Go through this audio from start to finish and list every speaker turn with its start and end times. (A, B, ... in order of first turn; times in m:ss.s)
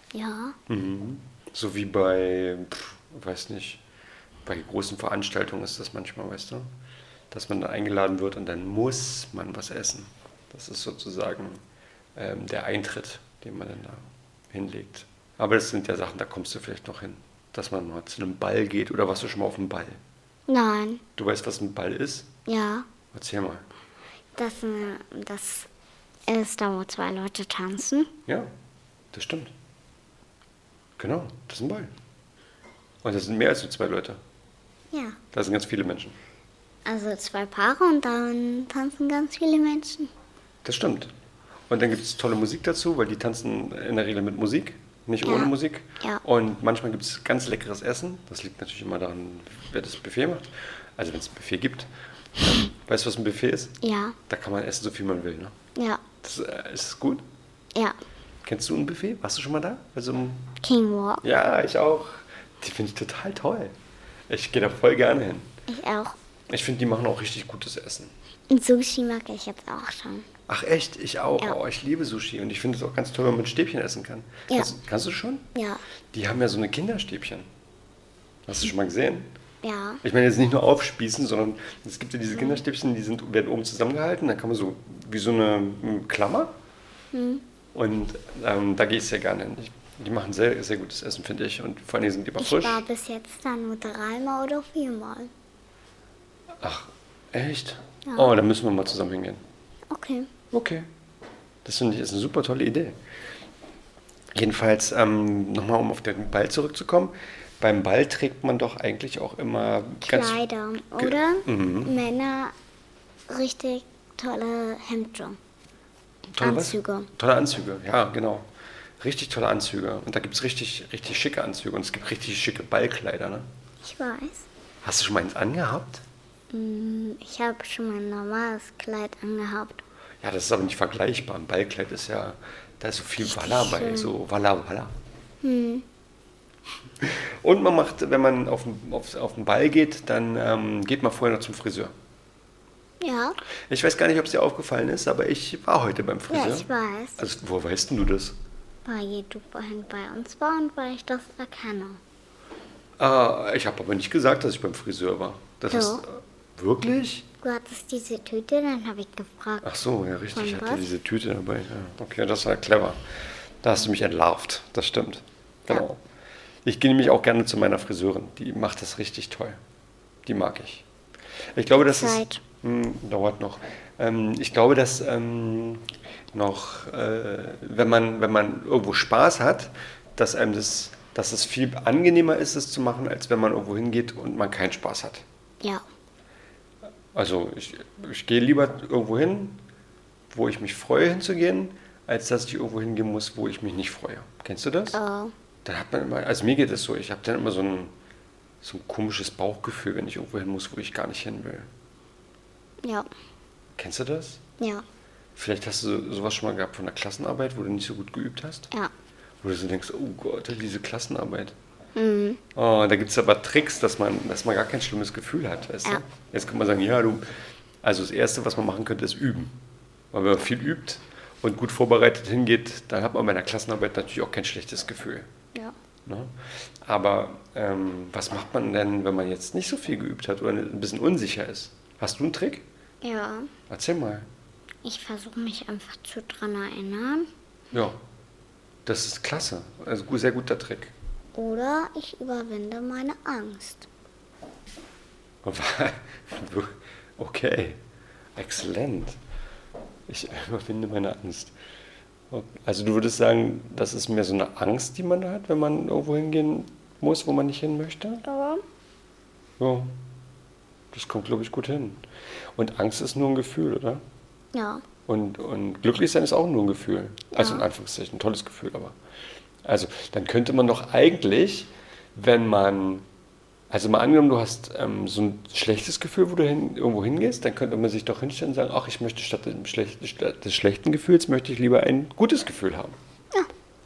0:00.1-0:00.6 A
0:00.7-0:03.8 B
0:04.5-0:06.7 B
0:07.3-0:11.6 B
0:12.2-0:20.0 B
0:20.5-0:21.0 A
0:21.2-0:22.3 B
0:22.5-0:22.9 A
0:23.1-0:23.7 B
0:24.4-0:25.7 A
0:26.3-0:28.1 A
0:29.1-0:29.5 B
0:31.0-0:31.9 B
0:33.0-0:34.2 B
0:34.9-0:35.2 A
0:35.3-0:36.2 B
0:36.9-0:40.1 A
0:40.6-0:41.1 B
0:41.7-0:53.8 B
0:45.2-0:46.2 A
0:53.8-0:54.2 A
0:54.3-0:55.5 B
0:55.8-0:56.0 A
0:56.2-0:57.2 B
0:58.4-1:00.5 B
1:00.6-1:01.2 A
1:01.2-1:03.7 B
1:04.3-1:05.5 B
1:05.7-1:06.2 A
1:06.5-1:08.1 B
1:08.5-1:10.3 A
1:10.5-1:15.4 B
1:15.6-1:15.8 A
1:16.1-1:17.5 B
1:18.5-1:19.3 B
1:19.6-1:20.0 A
1:20.0-1:26.5 B
1:22.4-1:22.6 A
1:27.1-1:27.4 A
1:27.7-1:32.8 B
1:32.4-1:35.3 A
1:36.6-1:39.4 B
1:38.1-1:38.3 A
1:39.9-1:40.3 A
1:40.5-1:40.9 B
1:41.6-1:43.0 B
1:44.3-1:50.4 B
1:50.0-1:52.5 A
1:51.0-1:52.0 B
1:53.3-1:55.4 A
1:56.4-1:58.5 B
1:56.4-1:57.1 A
1:59.0-2:03.5 B
2:03.8-2:04.5 A
2:04.8-2:06.0 B
2:06.5-2:09.8 A
2:10.2-2:14.9 B
2:13.2-2:14.1 A
2:15.4-2:15.8 A
2:17.0-2:21.9 B
2:23.0-2:23.4 A
2:23.7-2:26.7 B
2:26.3-2:27.2 A
2:27.2-2:28.4 B
2:28.8-2:32.0 A
2:33.0-2:37.3 B
2:35.7-2:36.0 A
2:37.4-2:39.7 A
2:39.6-2:43.0 B
2:40.3-2:40.9 A
2:43.6-2:46.0 B
2:46.6-2:49.6 B
2:50.2-2:50.8 B
2:51.6-3:05.2 B
2:51.7-2:52.4 A
3:07.1-3:09.6 B
3:10.3-3:15.0 B
3:14.9-3:15.3 A
3:15.6-3:17.9 B
3:18.6-3:21.7 B
3:22.8-3:23.1 A
3:23.8-3:24.4 B
3:24.6-3:24.8 A
3:25.4-3:28.7 B
3:29.4-3:31.6 B
3:32.0-3:32.4 A
3:32.6-3:37.2 B
3:37.8-3:39.5 B
3:40.1-3:45.3 B
3:46.1-3:52.6 B
3:53.0-3:53.5 A
3:53.7-3:54.3 B
3:54.8-3:57.3 A
3:57.7-3:58.0 B
3:58.9-4:00.9 B
4:01.4-4:03.9 A
4:05.4-4:07.8 B
4:08.4-4:09.2 B
4:10.1-4:11.6 B
4:12.3-4:18.2 B
4:18.2-4:18.6 A
4:19.6-4:19.9 B
4:20.9-4:22.0 B
4:22.6-4:24.0 B
4:24.5-4:24.8 A
4:25.1-4:29.0 B
4:27.4-4:27.6 A
4:29.6-4:33.1 B
4:33.7-4:43.0 B